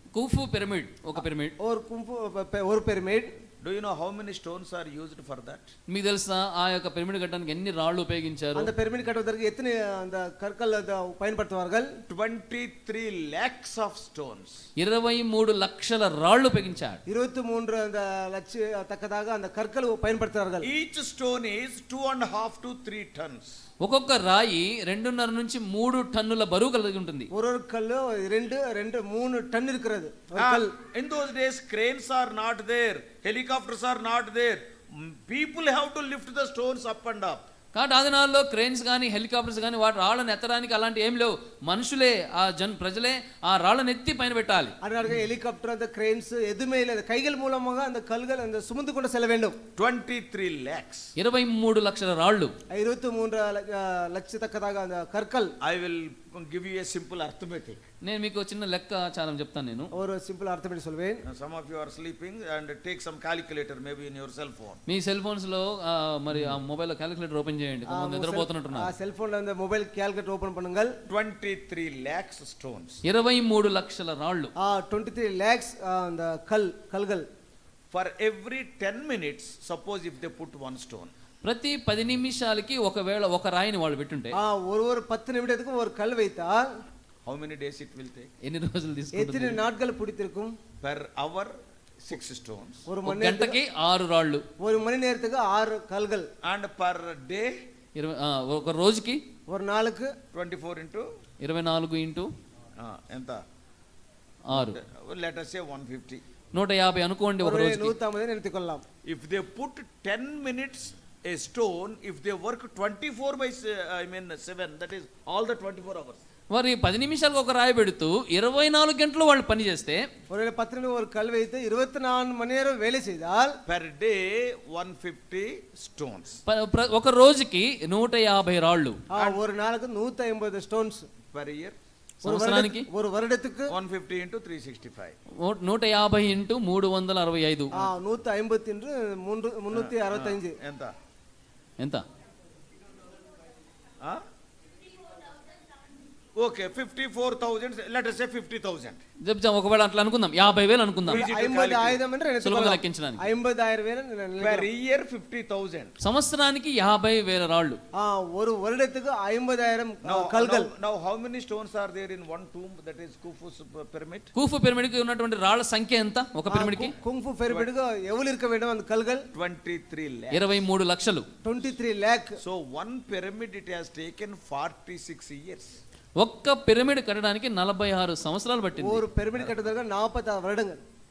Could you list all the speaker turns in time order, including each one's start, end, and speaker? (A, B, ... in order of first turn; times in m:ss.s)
0:00.1-0:01.6 A
0:01.6-0:03.3 B
0:03.6-0:05.7 C
0:05.9-0:08.7 A
0:08.6-0:11.9 B
0:12.1-0:14.6 C
0:14.8-0:17.0 A
0:17.1-0:20.7 B
0:20.6-0:23.6 C
0:23.8-0:27.3 A
0:27.3-0:30.7 B
0:30.4-0:37.4 C
0:37.7-0:44.8 A
0:44.8-0:49.6 B
0:49.8-0:51.1 C
0:51.2-0:52.5 A
0:52.7-0:55.5 B
0:55.6-0:57.8 C
0:58.0-0:59.9 A
1:00.0-1:01.2 B
1:01.3-1:04.8 C
1:04.9-1:08.9 A
1:07.9-1:10.9 B
1:11.1-1:13.0 C
1:13.0-1:14.5 A
1:14.6-1:17.3 B
1:17.9-1:21.1 C
1:21.4-1:24.4 A
1:24.4-1:26.7 B
1:27.3-1:28.3 C
1:28.4-1:29.6 A
1:29.2-1:30.5 B
1:30.8-1:31.5 C
1:32.0-1:32.9 C
1:32.9-1:33.6 B
1:33.1-1:34.4 A
1:34.6-1:36.3 B
1:36.4-1:37.5 C
1:38.0-1:39.2 A
1:39.5-1:40.1 B
1:40.3-1:41.1 C
1:41.4-1:42.3 A
1:42.8-1:43.4 C
1:44.5-1:44.8 A
1:44.5-1:46.2 C
1:46.5-1:48.0 A
1:47.4-1:48.8 B
1:49.1-1:56.2 C
1:56.5-2:00.1 A
2:00.3-2:03.6 B
2:03.7-2:06.4 C
2:06.5-2:09.0 A
2:09.1-2:11.1 B
2:11.3-2:11.8 C
2:12.2-2:12.9 A
2:12.2-2:13.7 B
2:13.7-2:15.2 C
2:15.4-2:17.7 A
2:17.7-2:20.6 B
2:19.7-2:20.9 C
2:21.8-2:22.0 A
2:26.4-2:29.0 C
2:29.2-2:31.2 A
2:31.1-2:32.0 C
2:31.1-2:34.7 B
2:32.4-2:33.2 A
2:34.4-2:36.0 C
2:36.0-2:37.8 A
2:38.0-2:40.7 B
2:40.0-2:44.3 C
2:44.4-2:47.0 A
2:46.5-2:49.3 B
2:49.3-2:50.5 C
2:50.3-2:51.3 A
2:51.4-2:52.4 B
2:52.4-2:55.7 C
2:56.2-2:59.0 A
2:58.8-3:00.8 B